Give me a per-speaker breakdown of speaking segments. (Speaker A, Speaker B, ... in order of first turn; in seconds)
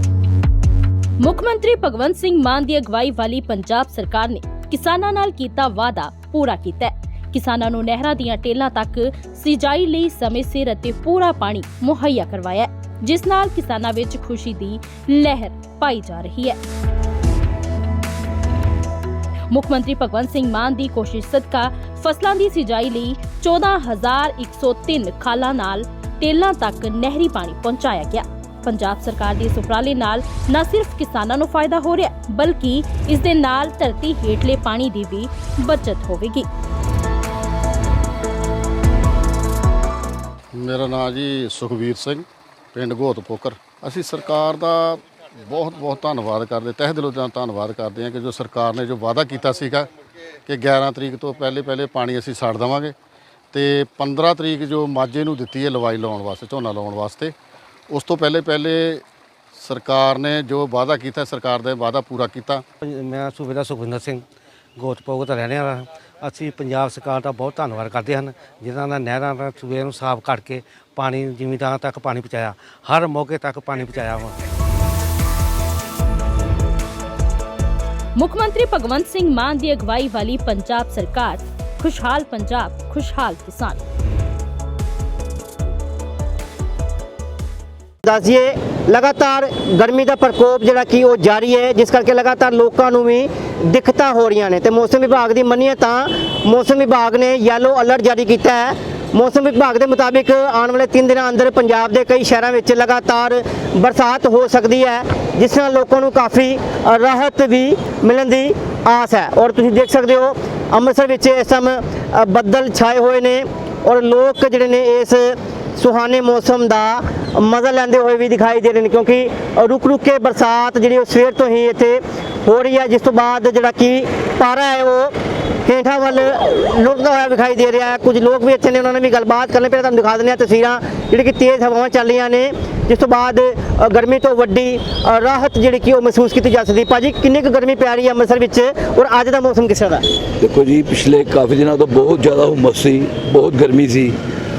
Speaker A: 1.2-16.6, 19.5-36.5, 78.2-83.8
Speaker B: 40.5-49.9, 50.5-53.0, 53.5-57.4, 57.9-59.0, 59.5-62.6
Speaker C: 62.8-64.2, 64.8-74.3
Speaker D: 88.0-125.1, 125.7-140.1
Speaker E: 140.4-144.2